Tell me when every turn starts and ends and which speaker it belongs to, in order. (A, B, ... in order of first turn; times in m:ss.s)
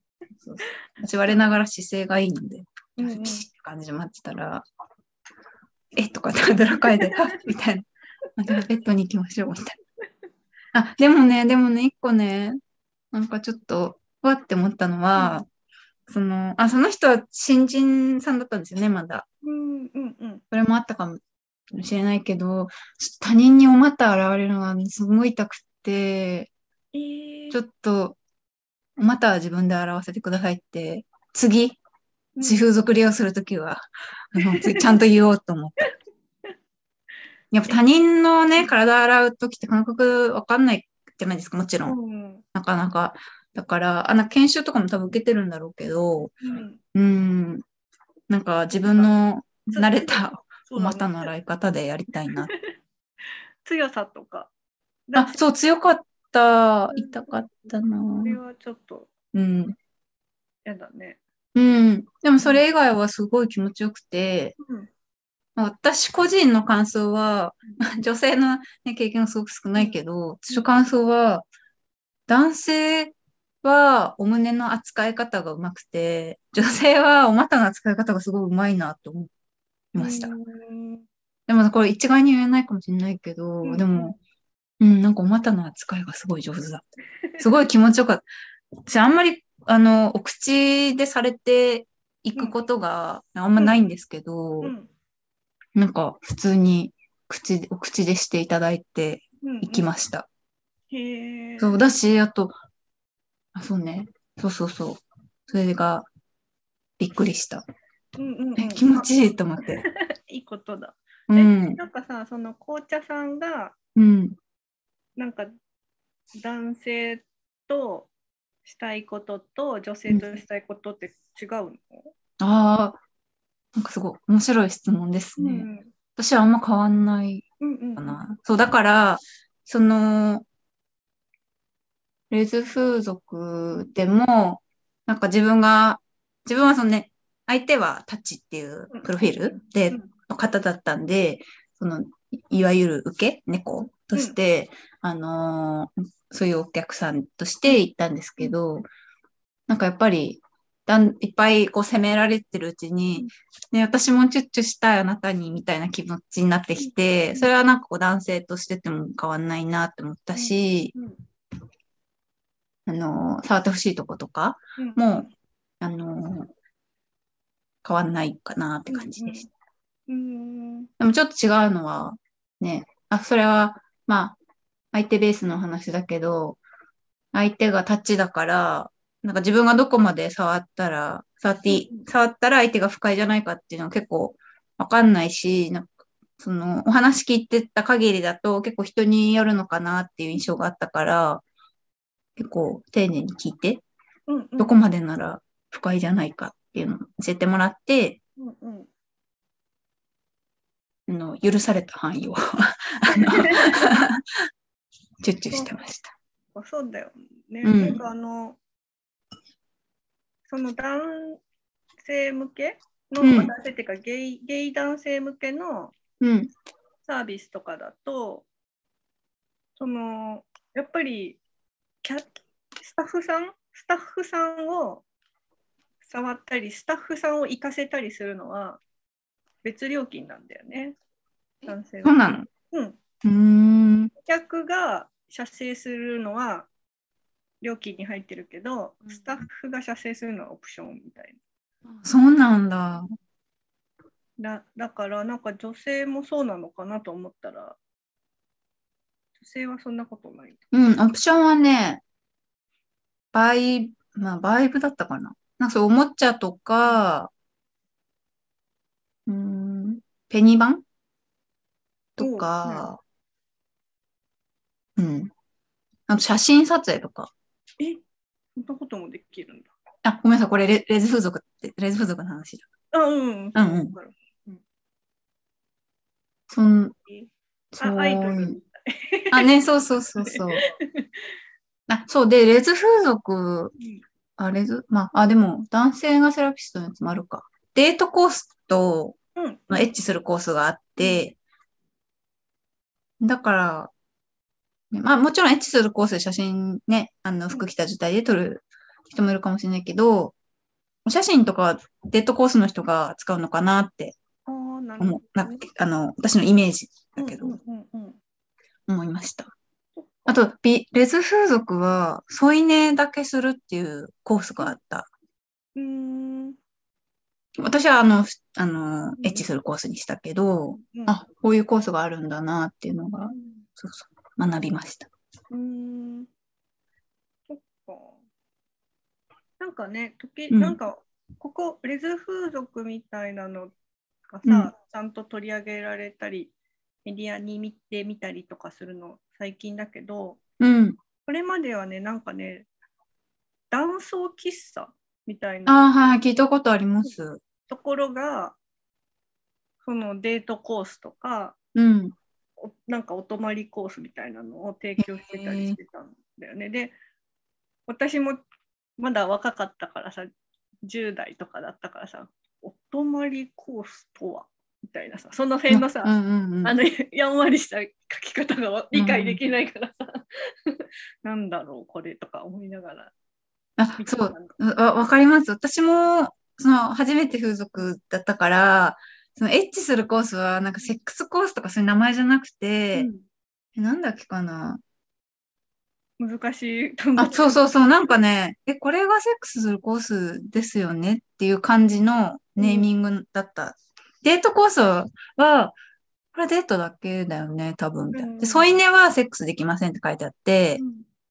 0:00.4-0:04.6 A
0:03.0-0:03.4 B
0:06.0-0:09.8 A
0:06.8-0:07.2 B
0:10.7-0:12.6 A
0:13.1-0:15.5 A
0:15.2-0:15.4 B
0:16.1-0:19.3 A
0:19.4-0:20.4 B
0:20.5-0:21.2 A
0:21.7-0:26.5 A
0:26.9-0:27.6 B
0:27.5-0:28.2 A
0:29.0-0:31.8 A
0:32.4-0:32.6 B
0:32.4-0:35.9 A
0:34.4-0:35.0 B
0:37.5-0:42.0 A
0:41.8-0:42.4 B
0:42.5-0:47.6 A
0:46.4-0:46.8 B
0:48.3-0:52.5 A
0:48.8-0:49.1 B
0:49.7-0:51.3 B
0:53.6-0:54.5 B
0:55.1-0:55.4 B
0:55.2-0:58.4 A
0:56.9-0:57.2 B
0:58.2-0:59.1 B
0:59.3-0:59.8 A
1:00.6-1:01.2 B
1:01.6-1:04.6 A
1:04.6-1:04.9 B
1:05.6-1:11.5 A
1:12.3-1:19.3 A
1:19.9-1:20.3 A
1:20.0-1:21.0 B
1:21.5-1:24.2 A
1:23.6-1:24.1 B
1:24.8-1:26.9 A
1:27.4-1:28.2 A
1:28.9-1:34.7 A
1:33.6-1:33.8 B
1:34.6-1:34.9 B
1:35.8-1:40.3 A
1:39.4-1:39.9 B
1:40.9-1:41.8 B
1:41.6-1:42.5 A
1:43.5-1:46.1 A
1:47.0-1:47.6 A
1:48.2-1:49.1 B
1:48.6-1:49.8 A
1:49.6-1:53.8 B
1:51.3-1:51.8 A
1:54.0-1:54.4 A
1:55.2-1:55.5 B
1:56.4-1:58.1 B
1:58.6-2:02.1 B
2:02.4-2:03.0 A
2:03.8-2:07.5 A
2:05.4-2:05.9 B
2:07.6-2:08.2 B
2:08.0-2:10.5 A
2:12.3-2:28.9 A
2:18.9-2:20.1 B
2:29.7-2:41.0 A
2:36.8-2:37.5 B
2:40.4-2:41.2 B
2:42.9-2:46.5 A
2:44.8-2:45.3 B
2:47.8-2:49.5 A
2:48.9-2:49.5 B
2:50.1-2:50.9 B
2:51.0-2:54.4 A
2:54.9-2:56.6 A
2:57.3-3:11.4 A
3:01.7-3:02.0 B
3:12.4-3:13.8 A
3:14.3-3:14.8 B
3:14.6-3:18.2 A
3:18.4-3:18.9 B
3:21.1-3:24.2 A
3:23.1-3:23.8 B
3:25.2-3:26.1 A
3:26.5-3:28.6 B
3:27.6-3:28.0 A
3:30.5-3:31.4 B
3:32.0-3:35.9 B
3:33.2-3:33.5 A
3:36.2-3:36.5 A
3:37.1-3:38.5 B
3:39.8-3:41.4 B
3:42.0-3:45.0 B
3:46.0-3:48.8 B
3:49.6-3:51.0 B
3:51.6-3:52.5 A
3:51.7-3:52.2 B
3:52.7-3:53.0 B
3:53.2-3:54.1 A
3:54.2-3:56.7 B
3:57.6-4:01.4 B
4:02.0-4:03.1 A
4:04.4-4:07.8 B
4:09.4-4:10.6 B
4:10.7-4:12.0 A
4:13.3-4:17.3 A
4:19.3-4:20.8 A
4:22.2-4:23.0 A
4:22.2-4:22.8 B
4:25.0-4:25.3 A
4:26.1-4:27.3 A
4:28.6-4:29.7 B
4:30.0-4:32.7 A
4:32.9-4:34.6 B
4:33.6-4:33.9 A
4:36.5-4:37.0 A
4:37.7-4:38.6 A
4:37.8-4:39.5 B
4:39.3-4:40.6 A
4:40.2-4:41.2 B
4:41.9-4:43.7 A
4:44.4-4:49.2 A
4:49.4-4:49.8 B
4:49.7-4:51.4 A
4:53.2-4:53.9 A
4:54.9-5:00.4 A
5:01.0-5:04.2 A
5:04.5-5:05.6 B
5:05.0-5:07.6 A
5:07.2-5:08.2 B
5:08.9-5:09.6 A
5:10.0-5:10.3 B
5:10.3-5:15.1 A
5:15.8-5:16.6 B
5:17.6-5:25.1 A
5:19.2-5:19.4 B
5:20.8-5:21.2 B
5:23.2-5:23.6 B
5:25.5-5:26.3 B
5:27.5-5:28.2 B
5:29.6-5:33.7 B
5:30.5-5:30.8 A
5:34.3-5:36.5 B
5:34.5-5:34.7 A
5:37.0-5:40.4 B
5:40.6-5:41.0 A
5:41.3-5:42.7 B
5:43.7-5:45.9 B
5:45.7-5:47.4 A
5:47.7-5:48.6 B
5:49.8-5:51.6 B
5:51.8-5:52.2 A
5:52.6-5:57.0 B
5:55.0-5:55.8 A
5:57.9-5:58.4 B
5:59.0-6:00.3 B
6:00.8-6:06.1 B
6:05.7-6:06.8 A
6:06.6-6:13.1 B
6:08.9-6:09.4 A
6:13.8-6:23.1 A
6:14.0-6:14.5 B
6:23.0-6:23.2 B
6:23.8-6:24.8 A
6:26.2-6:27.6 B
6:27.2-6:35.8 A
6:32.6-6:32.9 B
6:36.3-6:40.8 A
6:38.1-6:38.7 B
6:40.8-6:41.1 B